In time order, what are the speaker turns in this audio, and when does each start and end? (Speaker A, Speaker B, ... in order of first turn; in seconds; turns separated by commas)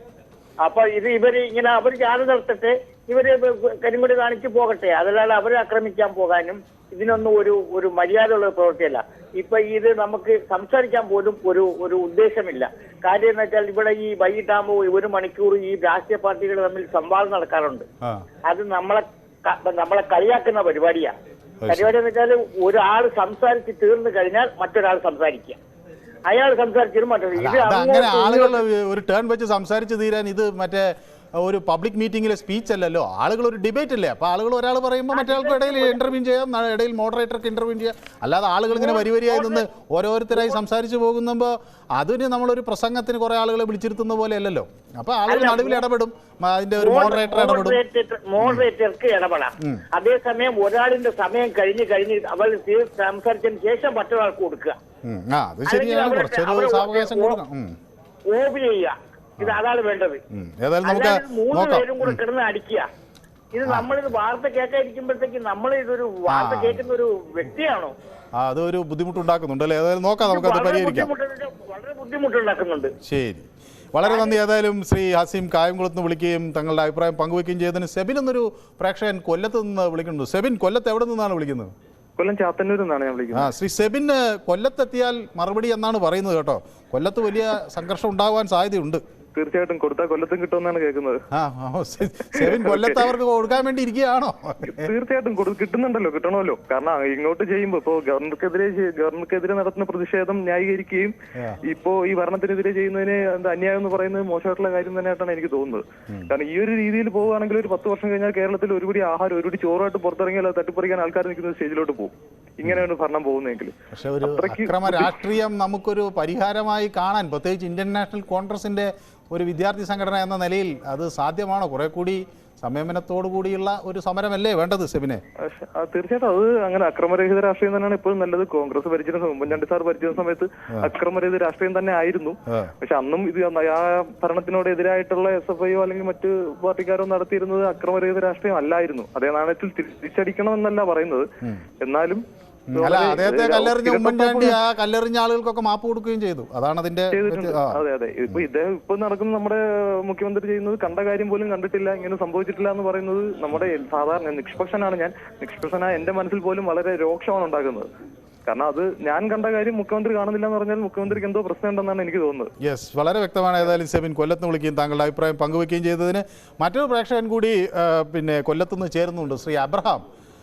Speaker A: 0.6-17.9, Speaker A: 18.5-21.1, Speaker B: 21.6-21.9, Speaker A: 21.7-25.6, Speaker A: 26.3-28.6, Speaker B: 27.4-47.8, Speaker A: 35.1-36.0, Speaker A: 38.7-39.6, Speaker A: 45.3-45.8, Speaker A: 46.8-54.8, Speaker B: 55.0-57.8, Speaker A: 55.7-57.4, Speaker A: 58.3-60.2, Speaker B: 60.3-62.2, Speaker A: 60.8-62.9, Speaker A: 63.5-67.9, Speaker B: 63.6-63.9, Speaker B: 66.3-66.8, Speaker B: 68.3-71.1, Speaker A: 70.2-72.9, Speaker B: 73.0-81.7, Speaker A: 74.0-74.3, Speaker C: 82.2-83.5, Speaker B: 83.3-89.0, Speaker C: 89.3-91.2, Speaker B: 91.3-94.9, Speaker C: 92.4-93.0, Speaker C: 94.7-101.1, Speaker C: 101.6-115.1, Speaker B: 112.6-112.9, Speaker B: 113.9-125.2, Speaker C: 125.4-141.2, Speaker B: 132.5-132.7, Speaker C: 141.8-142.2, Speaker C: 142.7-144.6, Speaker B: 142.8-148.4, Speaker C: 147.1-157.9, Speaker C: 158.4-162.5, Speaker B: 162.6-170.0